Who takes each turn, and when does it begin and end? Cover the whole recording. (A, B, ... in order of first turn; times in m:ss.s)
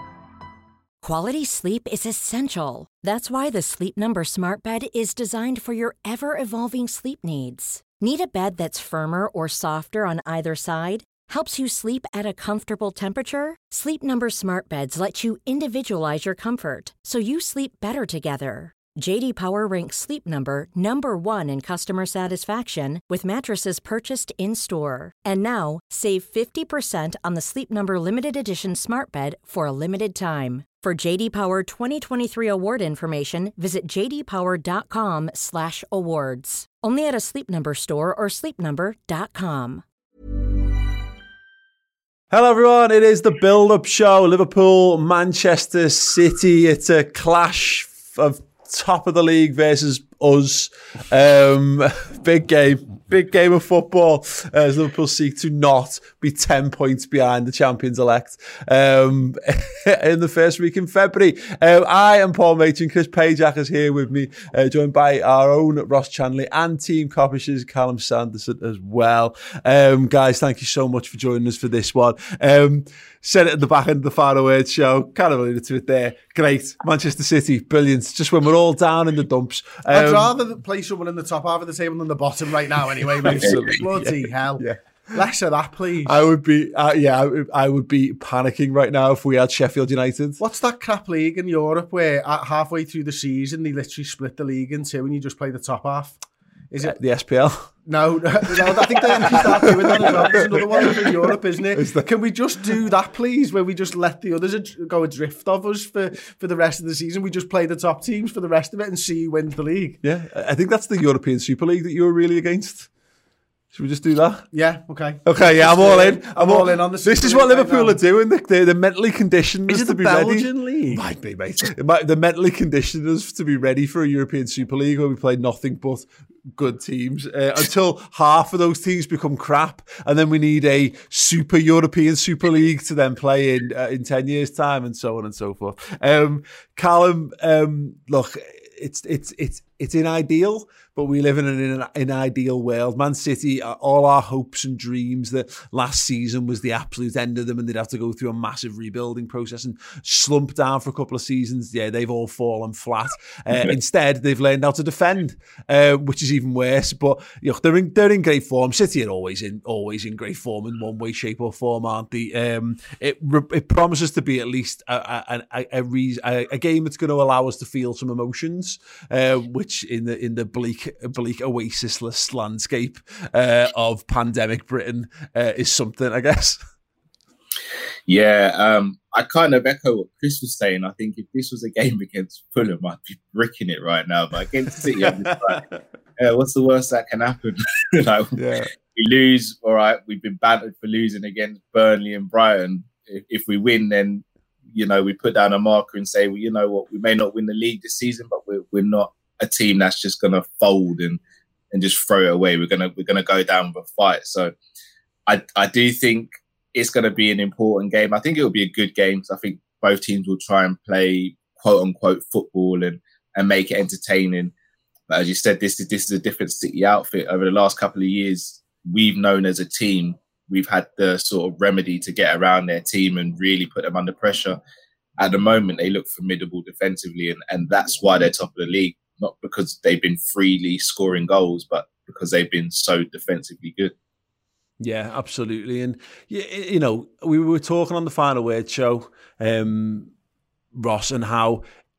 0:01.0-0:39.8 A
0:42.3-1:20.3 B
1:19.9-1:26.2 C
1:23.2-1:25.2 B
1:23.3-1:23.8 D
1:26.0-1:30.4 B
1:30.4-1:36.2 C
1:36.7-1:37.0 C
1:36.8-1:37.7 B
1:37.8-1:50.0 C
1:38.6-1:41.2 B
1:41.7-1:42.1 B
1:50.0-1:52.9 B
1:53.7-1:54.5 B
1:54.5-1:58.0 C
1:55.2-2:56.6 B
1:59.7-2:01.0 C
2:58.1-3:05.6 D
3:05.0-3:05.8 B
3:06.2-3:08.3 D
3:08.4-3:08.7 B
3:08.9-3:21.2 D
3:21.7-3:24.5 D
3:25.3-3:34.5 D
3:35.1-3:44.6 D
3:45.2-3:53.9 D
3:54.8-4:00.1 B
4:00.7-4:01.6 B